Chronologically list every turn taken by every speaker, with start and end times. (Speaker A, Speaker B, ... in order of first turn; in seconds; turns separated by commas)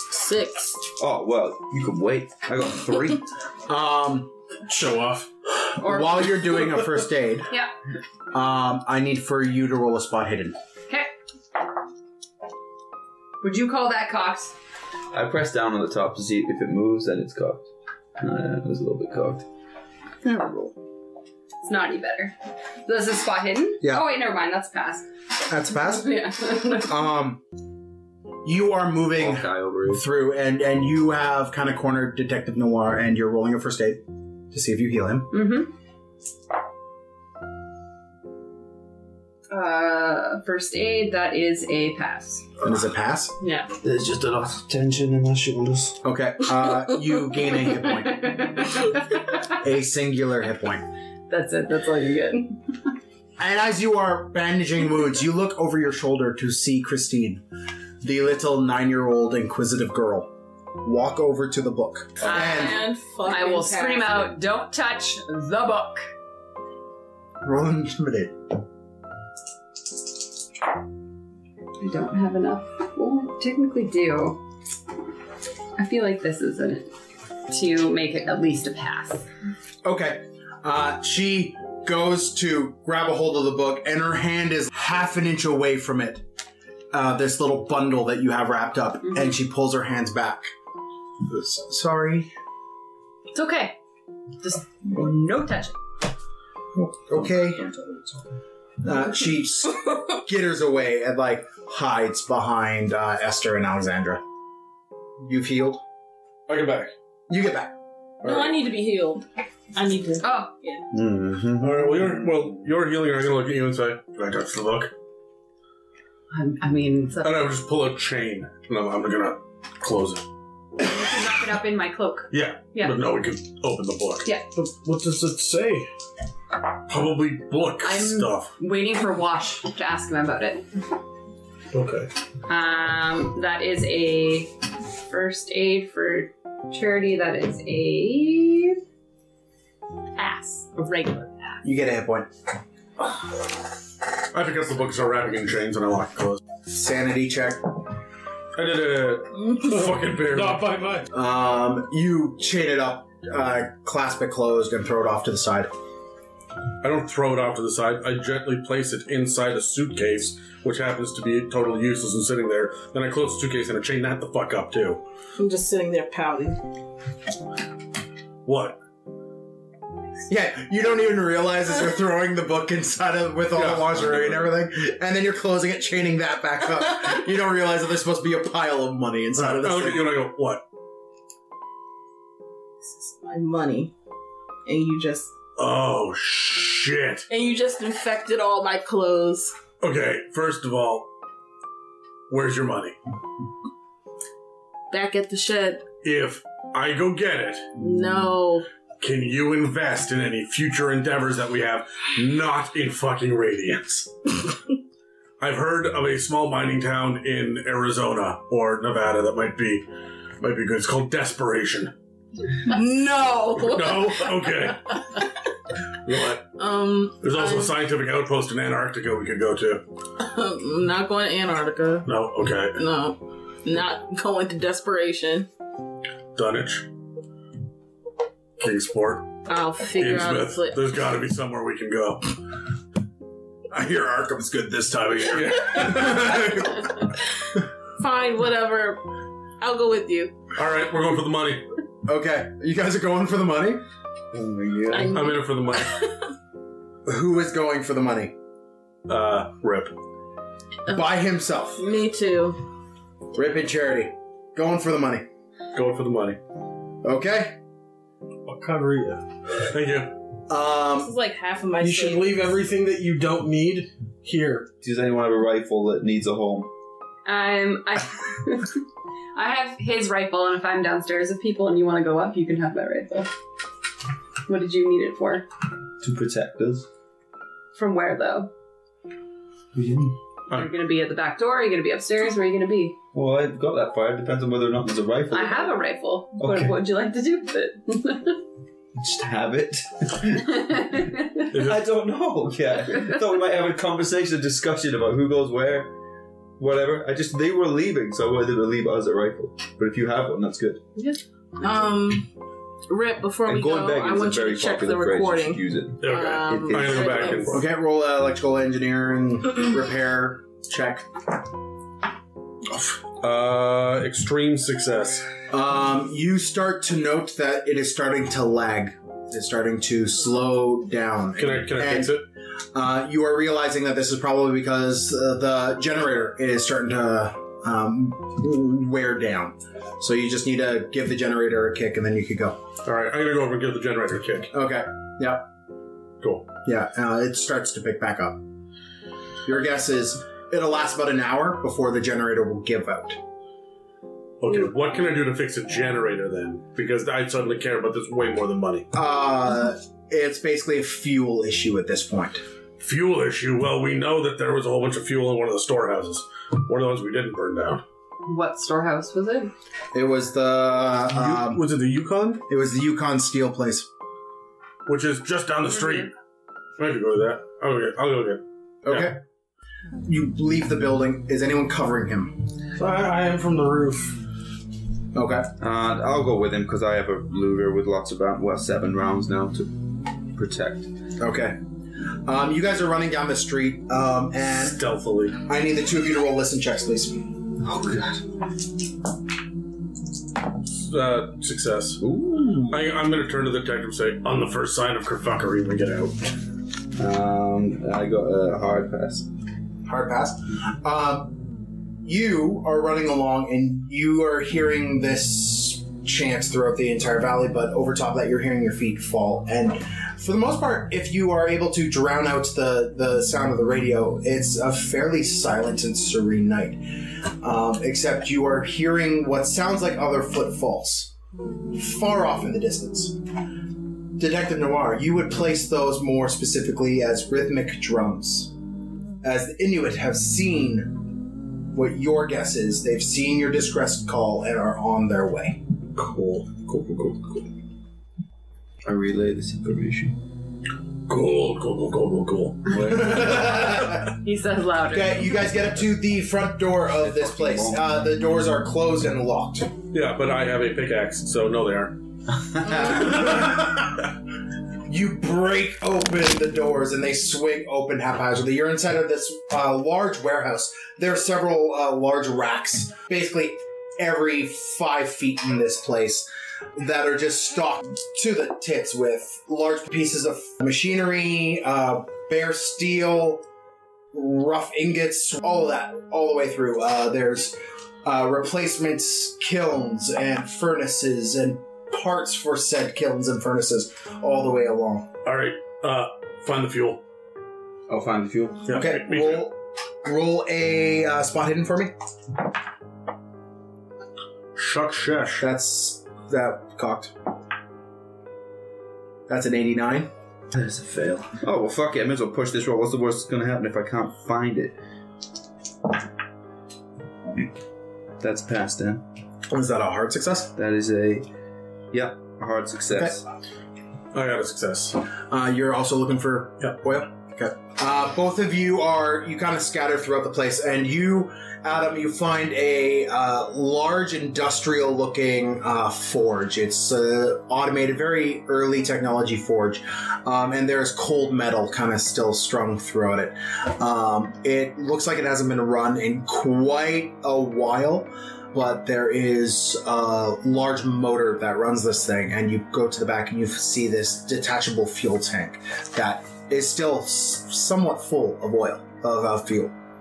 Speaker A: 0.1-0.8, Speaker B: 1.0-3.2, Speaker C: 3.7-4.3, Speaker D: 4.7-5.3, Speaker C: 5.8-7.5, Speaker E: 5.8-6.2, Speaker C: 8.3-10.6, Speaker E: 13.4-14.5, Speaker B: 15.1-19.4, Speaker C: 20.2-20.7, Speaker E: 21.6-22.3, Speaker E: 22.9-25.1, Speaker C: 25.5-26.1, Speaker E: 25.8-26.9, Speaker C: 26.8-27.4, Speaker C: 28.4-35.3, Speaker B: 29.2-30.0, Speaker E: 35.3-35.7, Speaker E: 39.5-42.5, Speaker C: 42.6-43.3, Speaker E: 43.4-43.7, Speaker B: 43.8-46.0, Speaker C: 46.0-48.7, Speaker E: 48.0-49.4, Speaker C: 49.5-50.8, Speaker E: 51.3-52.6, Speaker C: 53.4-57.4, Speaker C: 58.0-62.8, Speaker E: 62.2-66.0, Speaker A: 62.2-64.3, Speaker C: 67.4-68.4, Speaker E: 71.8-74.4, Speaker E: 75.8-76.9, Speaker E: 77.5-79.2, Speaker C: 79.8-86.2, Speaker C: 86.9-90.5, Speaker C: 91.2-92.3, Speaker E: 93.3-93.8, Speaker E: 94.4-95.8, Speaker C: 96.8-97.7, Speaker C: 98.8-104.2, Speaker C: 105.2-105.8, Speaker F: 106.5-106.9, Speaker C: 107.3-107.7, Speaker A: 108.2-110.8, Speaker E: 110.2-110.5, Speaker B: 110.9-112.3, Speaker F: 111.6-114.9, Speaker E: 116.3-117.5, Speaker F: 117.2-120.2, Speaker E: 120.8-123.0, Speaker F: 122.3-124.3, Speaker D: 124.5-125.9, Speaker F: 126.9-128.5, Speaker E: 127.8-130.6, Speaker F: 131.7-132.1, Speaker E: 132.5-134.5, Speaker E: 135.1-138.8, Speaker E: 140.2-141.6, Speaker C: 141.6-142.3, Speaker F: 144.3-146.4, Speaker C: 146.7-147.6, Speaker F: 148.5-150.7, Speaker D: 149.8-151.1, Speaker C: 151.1-155.7, Speaker F: 156.8-165.0, Speaker A: 165.4-166.6, Speaker F: 168.4-168.8, Speaker C: 170.3-180.1, Speaker F: 173.5-174.5, Speaker F: 179.4-180.6, Speaker A: 182.8-183.9, Speaker A: 184.7-185.3, Speaker F: 185.6-187.2, Speaker A: 187.3-189.5, Speaker F: 189.8-191.1, Speaker F: 192.3-192.9, Speaker A: 194.9-195.8, Speaker F: 196.0-197.8, Speaker A: 197.8-198.7, Speaker F: 199.0-204.1, Speaker F: 205.4-209.8, Speaker F: 210.4-211.9, Speaker A: 212.6-214.7, Speaker F: 213.6-215.0, Speaker F: 216.0-216.5, Speaker A: 216.6-217.8, Speaker F: 217.2-219.8, Speaker A: 220.2-222.1, Speaker F: 222.1-222.8, Speaker A: 222.7-225.5, Speaker F: 226.3-226.9, Speaker F: 228.6-229.3, Speaker A: 229.5-230.8, Speaker F: 230.0-232.3, Speaker C: 233.9-236.4, Speaker F: 235.2-236.9, Speaker A: 238.0-239.0, Speaker A: 239.6-240.3, Speaker F: 240.5-241.7, Speaker C: 242.1-243.8, Speaker B: 244.3-245.2, Speaker A: 244.9-246.1, Speaker F: 245.1-246.1, Speaker C: 247.1-248.3, Speaker F: 249.1-249.9, Speaker C: 250.9-251.8, Speaker A: 251.8-252.6, Speaker C: 253.3-255.2, Speaker F: 255.7-256.4, Speaker C: 257.0-257.6, Speaker D: 258.5-259.2, Speaker F: 259.6-260.1, Speaker C: 260.5-261.1, Speaker A: 261.0-262.5, Speaker D: 261.8-264.7, Speaker B: 264.8-266.7, Speaker E: 267.2-268.8, Speaker E: 269.3-273.3, Speaker E: 274.5-275.4, Speaker B: 276.0-276.9, Speaker E: 277.7-278.5, Speaker B: 279.7-280.1, Speaker E: 280.5-282.9, Speaker B: 283.1-285.8, Speaker E: 285.3-288.4, Speaker B: 286.4-286.8, Speaker B: 289.0-295.9, Speaker E: 290.5-291.5, Speaker F: 291.5-291.8, Speaker B: 296.6-300.8, Speaker A: 301.6-302.2, Speaker A: 302.9-307.6, Speaker B: 303.4-307.6, Speaker F: 306.0-307.6, Speaker C: 307.5-311.1, Speaker F: 313.2-315.2, Speaker C: 315.5-322.2, Speaker F: 321.4-322.2, Speaker C: 322.7-332.6, Speaker F: 332.8-334.5, Speaker C: 334.5-335.4, Speaker F: 336.2-336.5, Speaker C: 336.6-338.4, Speaker C: 339.4-343.2, Speaker F: 344.4-348.9, Speaker C: 348.9-352.4, Speaker F: 352.8-357.8, Speaker E: 358.3-359.5, Speaker C: 359.9-361.6, Speaker F: 361.1-362.4, Speaker C: 362.5-363.9, Speaker F: 364.9-366.1, Speaker F: 366.8-369.1, Speaker C: 368.8-369.2, Speaker C: 370.0-372.4, Speaker D: 372.8-374.2, Speaker C: 375.1-375.5, Speaker B: 375.6-379.7, Speaker B: 380.3-380.9, Speaker C: 381.2-381.6, Speaker C: 382.2-384.8, Speaker F: 384.6-385.4, Speaker C: 385.4-387.3, Speaker B: 387.6-388.2, Speaker F: 390.7-392.0, Speaker B: 392.0-392.9, Speaker F: 392.7-396.2, Speaker B: 396.9-399.3, Speaker C: 399.9-401.4, Speaker C: 402.0-421.1, Speaker C: 421.7-423.1, Speaker C: 424.2-428.5, Speaker C: 429.2-431.0, Speaker C: 431.7-435.6, Speaker F: 435.9-437.5, Speaker B: 438.8-440.2, Speaker F: 441.1-442.8, Speaker B: 442.7-443.7, Speaker C: 442.8-444.1, Speaker E: 444.1-445.5, Speaker C: 444.9-449.7, Speaker B: 446.9-447.8, Speaker F: 449.9-451.9, Speaker B: 452.4-453.5, Speaker C: 454.9-473.4, Speaker C: 474.1-485.1, Speaker F: 485.2-487.0, Speaker B: 487.9-488.7, Speaker F: 488.7-489.5, Speaker C: 488.7-491.9, Speaker F: 494.5-495.4, Speaker C: 495.4-497.1, Speaker C: 499.3-500.1, Speaker B: 500.5-504.8, Speaker B: 508.2-509.0, Speaker C: 509.5-510.5, Speaker B: 510.5-511.3, Speaker B: 511.9-513.2, Speaker C: 512.9-513.2, Speaker F: 514.1-515.0, Speaker C: 515.3-549.7